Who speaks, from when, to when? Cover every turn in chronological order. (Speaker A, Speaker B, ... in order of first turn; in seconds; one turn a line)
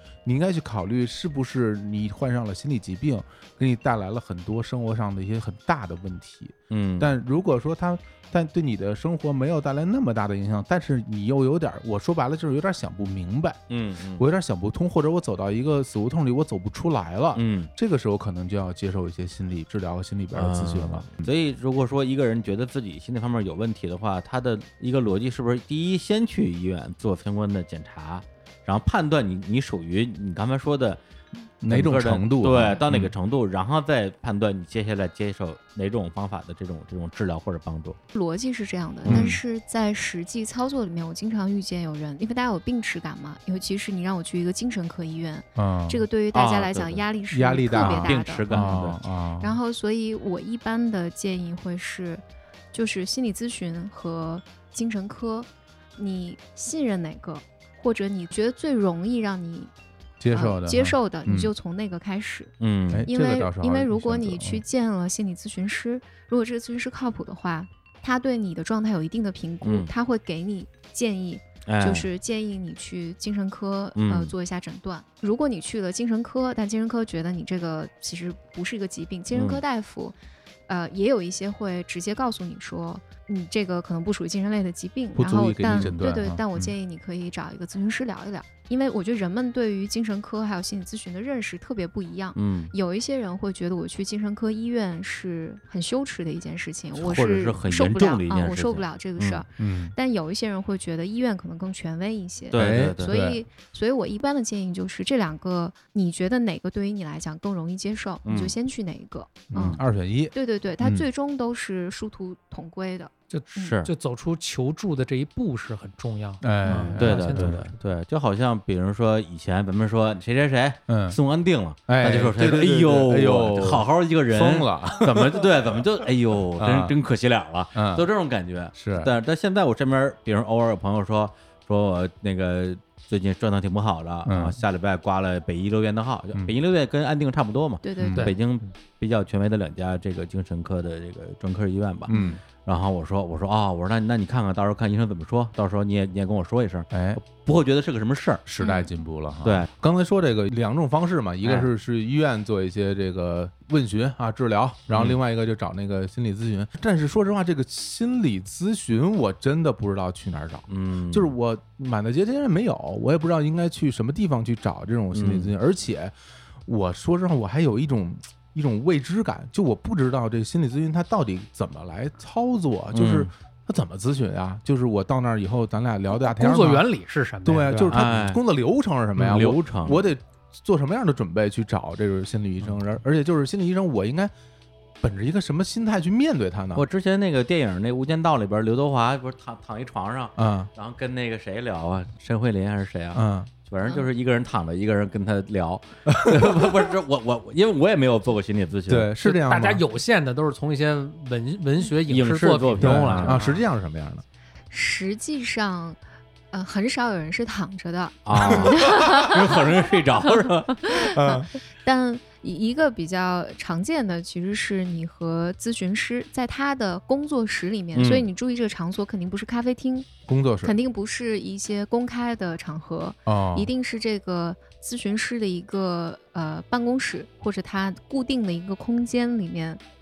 Speaker A: 0.2-13.6
Speaker B: 6.7-7.1
Speaker B: 13.7-14.2
Speaker A: 14.2-21.3
Speaker B: 17.3-17.7
Speaker B: 20.3-31.0
Speaker A: 31.6-33.1
Speaker B: 31.6-38.0
Speaker C: 38.1-48.7
Speaker B: 39.0-39.4
Speaker A: 39.1-39.4
Speaker A: 45.5-46.0
Speaker B: 46.3-47.0
Speaker A: 47.3-49.6
Speaker B: 47.7-49.0
Speaker C: 49.4-59.7
Speaker A: 60.2-61.5
Speaker C: 60.3-62.5
Speaker B: 62.6-63.1
Speaker A: 62.9-64.6
Speaker C: 63.1-80.2
Speaker B: 69.6-69.9
Speaker B: 71.7-72.1
Speaker B: 74.0-74.3
Speaker B: 79.3-79.6
Speaker C: 80.7-109.8
Speaker A: 85.1-86.4
Speaker B: 85.8-86.7
Speaker B: 92.3-92.7
Speaker B: 96.9-99.4
Speaker A: 99.6-99.9
Speaker B: 102.5-103.1
Speaker A: 102.5-103.4
Speaker B: 108.2-108.5
Speaker A: 109.5-111.0
Speaker B: 109.5-109.8
Speaker C: 110.3-113.8
Speaker D: 113.3-117.7
Speaker B: 113.6-113.9
Speaker A: 116.4-117.6
Speaker B: 116.9-148.5
Speaker A: 120.9-121.2
Speaker A: 121.9-125.8
Speaker A: 126.6-126.9
Speaker A: 127.7-128.1
Speaker A: 128.7-129.1
Speaker A: 134.2-134.6
Speaker C: 137.8-138.4
Speaker A: 138.0-138.3
Speaker C: 142.1-142.4
Speaker A: 142.1-142.4
Speaker A: 146.9-147.2
Speaker A: 148.5-176.8
Speaker C: 148.6-148.9
Speaker B: 149.4-149.7
Speaker B: 151.4-151.7
Speaker B: 154.9-155.2
Speaker B: 160.7-161.3
Speaker B: 165.1-165.5
Speaker B: 172.9-173.3
Speaker D: 176.1-178.0
Speaker A: 177.4-184.3
Speaker B: 177.9-178.4
Speaker B: 179.1-180.0
Speaker A: 185.0-186.8
Speaker B: 186.7-199.1
Speaker A: 190.4-190.7
Speaker A: 193.1-193.5
Speaker C: 193.8-194.1
Speaker A: 196.1-196.7
Speaker A: 198.9-199.8
Speaker D: 199.2-203.6
Speaker B: 202.1-203.5
Speaker A: 202.8-204.2
Speaker C: 204.7-206.0
Speaker C: 206.5-209.6
Speaker B: 208.2-210.9
Speaker A: 208.5-209.0
Speaker C: 210.9-220.1
Speaker A: 211.0-211.5
Speaker B: 217.9-218.3
Speaker A: 220.3-220.7
Speaker C: 220.6-229.8
Speaker A: 223.3-223.7